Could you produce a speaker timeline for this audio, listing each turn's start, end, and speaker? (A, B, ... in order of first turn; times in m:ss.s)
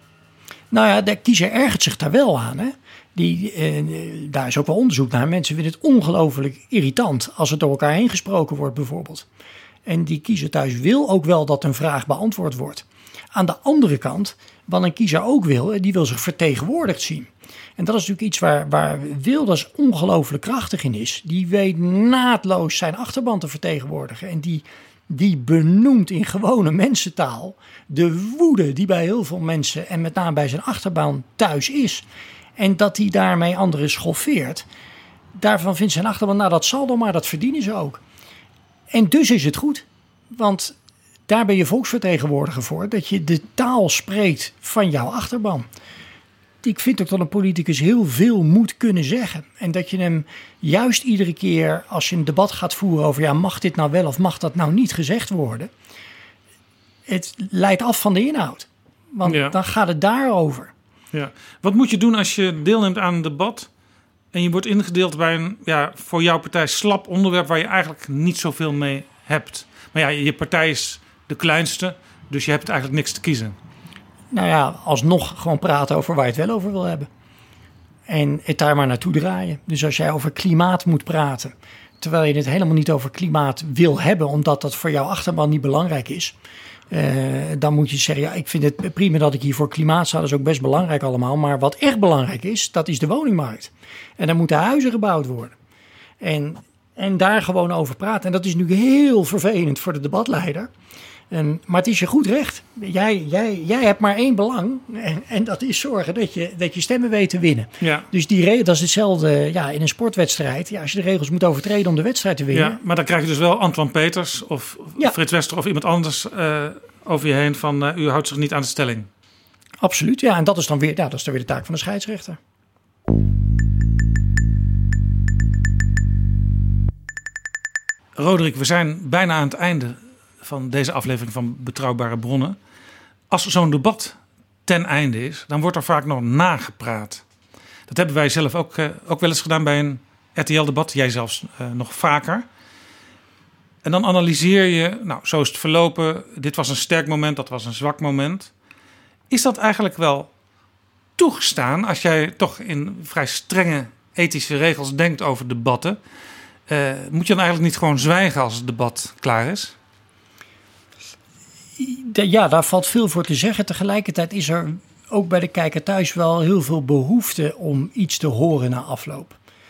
0:00.7-0:09.2 A
0:09.8-0:32.0 A
0:32.6-0:34.6 A
0:35.3-0:38.0 A
0:38.9-0:40.8 A
0:41.3-0:45.7 A
0:46.6-0:55.7 A
0:57.1-1:00.7 A
0:59.2-0:59.5 B
1:01.1-1:03.7 B
1:04.3-1:13.6 B
1:14.3-1:17.1 A
1:18.1-1:26.3 A
1:26.9-1:35.6 A
1:36.2-1:40.7 A
1:41.3-1:52.8 A
1:47.8-1:48.0 B
1:52.5-1:59.1 B
1:59.8-2:02.4 A
2:08.2-2:12.6 B
2:13.3-2:17.2 B
2:17.9-2:22.5 B
2:23.8-2:28.5 B
2:29.3-2:30.3 B
2:31.2-2:36.0 B
2:36.7-2:39.8 B
2:41.8-2:49.4 A